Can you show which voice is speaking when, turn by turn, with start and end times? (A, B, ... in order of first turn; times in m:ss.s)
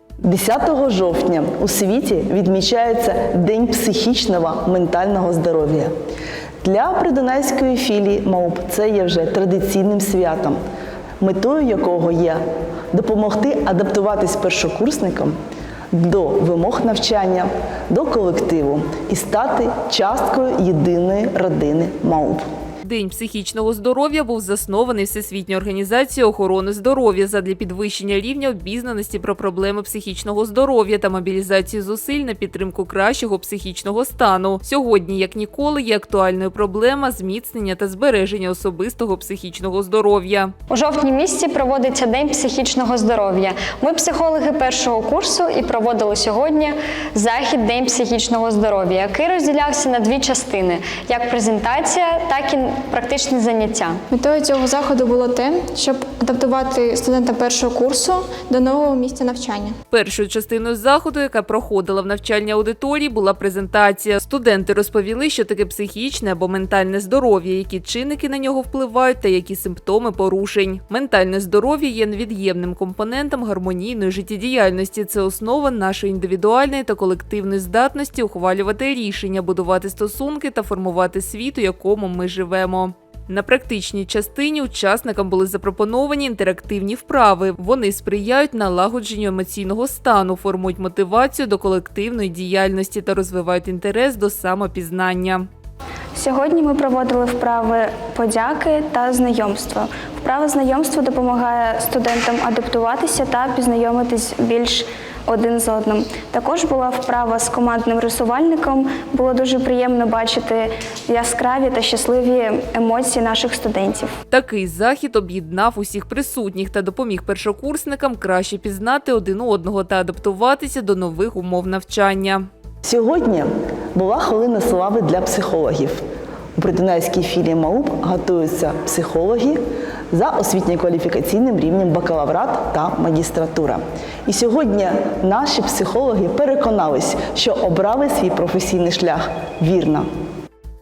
0:00.2-0:05.9 A
0:06.6-0:10.6 A
0:11.2-0:15.3 A
0:15.9-0:22.4 A
0:22.8-0:40.5 B
0:40.7-0:54.0 C
0:54.1-0:59.8 D
0:59.9-1:35.5 B
1:36.2-1:54.1 E
1:54.3-2:02.5 B
2:02.8-2:06.0 A
2:06.6-2:09.6 A
2:10.1-2:20.1 A